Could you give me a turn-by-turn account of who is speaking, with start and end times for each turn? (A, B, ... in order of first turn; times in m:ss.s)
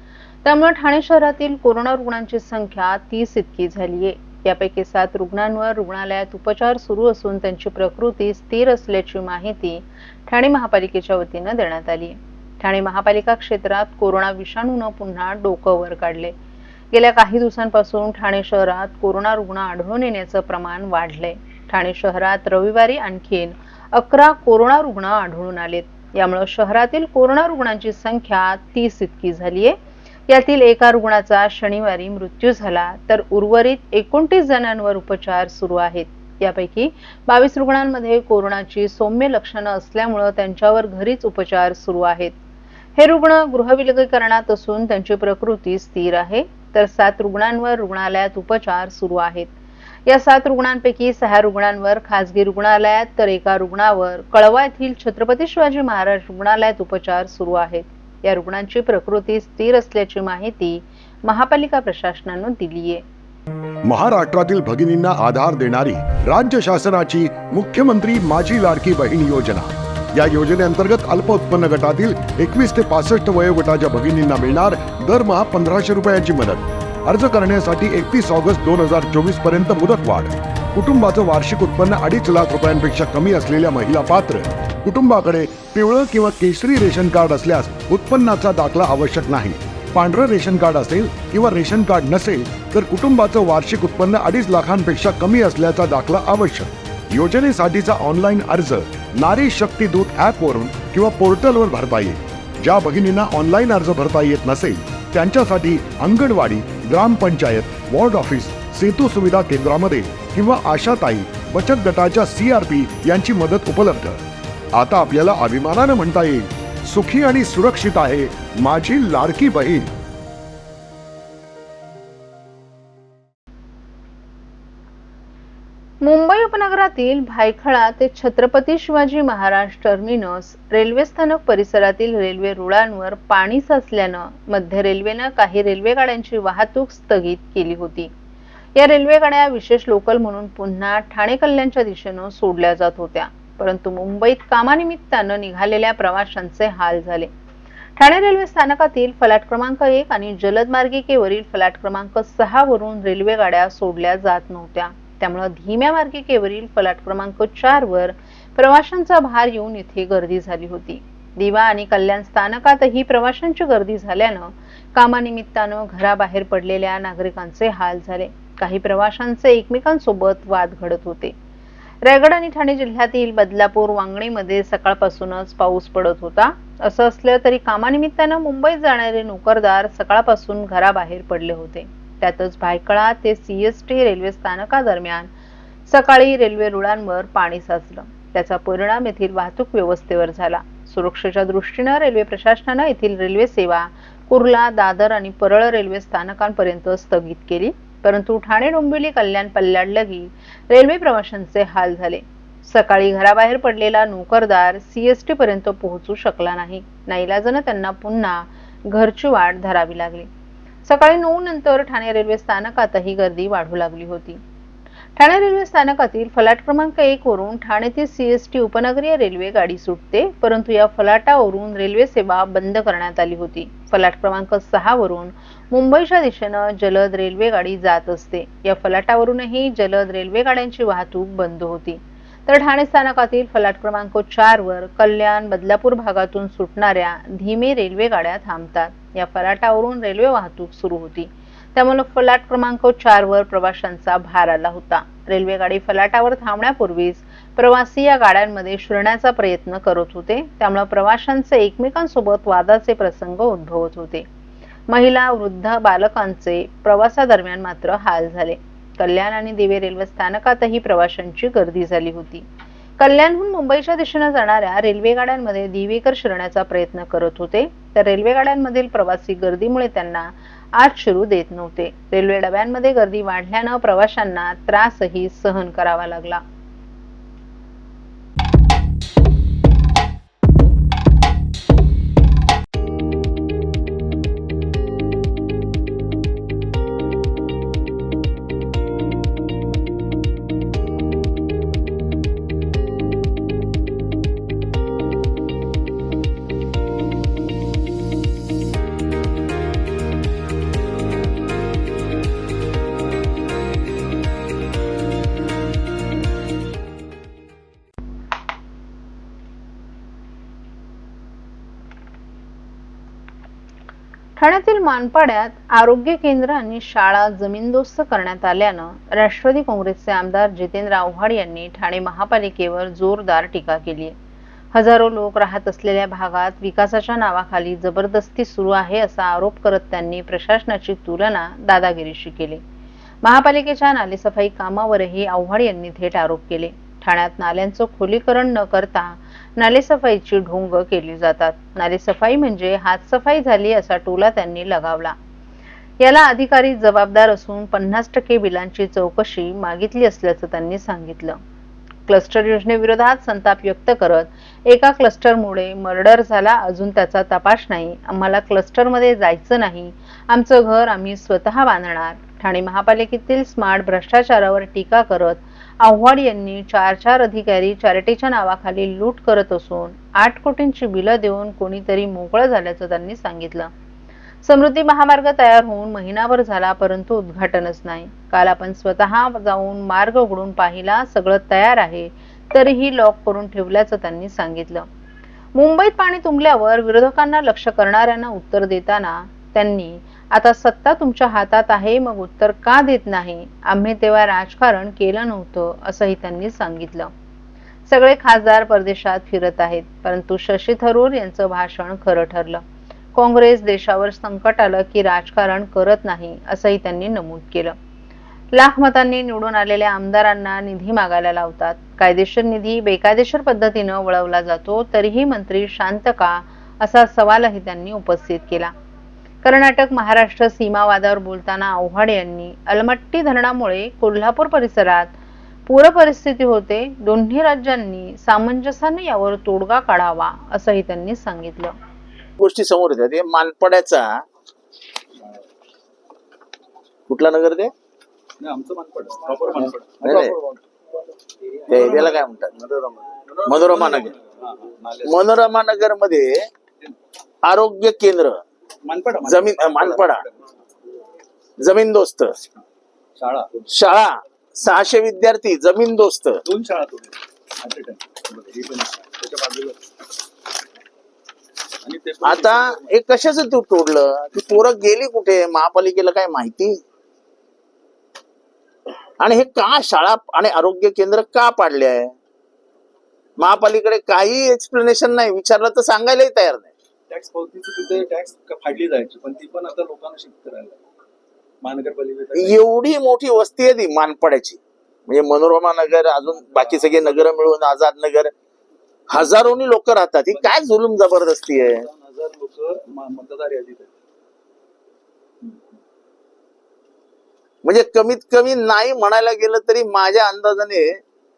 0:00.4-0:16.3 A
0:16.9-0:29.8 A
0:30.3-0:42.4 A
0:43.0-0:49.5 A
0:50.0-1:03.0 A
1:03.8-1:54.2 B
1:54.7-1:59.9 B
2:06.0-2:18.1 A
2:18.7-2:27.3 A
2:28.0-2:51.3 A
2:52.0-3:05.3 A
3:05.9-3:30.3 A
3:30.8-3:34.4 A
3:35.2-4:14.2 A
4:14.9-4:22.4 A
4:23.0-4:36.4 A
5:14.4-5:24.2 A
5:24.7-5:32.6 A
5:33.2-5:45.2 A
5:46.0-5:51.4 A
5:52.0-6:13.7 A
6:14.4-6:24.9 A
6:25.5-6:37.1 A
6:37.9-6:42.6 A
6:43.1-6:47.8 A
6:48.5-6:58.7 A
6:59.4-7:05.1 A
7:05.7-7:11.8 A
7:12.4-7:14.2 C
7:17.1-7:17.7 C
7:18.4-7:20.6 D
7:20.0-7:20.3 C
7:21.6-7:25.3 D
7:21.7-7:22.5 C
7:23.4-7:24.1 C
7:25.0-7:26.3 C
7:27.4-7:28.4 C
7:28.8-7:30.4 D
7:29.2-7:30.2 C
7:31.6-7:32.4 C
7:33.2-7:33.6 D
7:33.7-7:36.4 C
7:36.4-7:39.8 D
7:41.8-7:42.9 D
7:42.2-7:46.8 C
7:49.2-7:52.1 C
7:53.4-7:56.7 C
7:57.1-8:00.8 D
8:01.6-8:02.6 D
8:02.3-8:08.3 C
8:06.3-8:07.2 D
8:09.1-8:11.8 C
8:10.3-8:10.6 D
8:11.6-8:13.9 D
8:17.6-8:21.0 C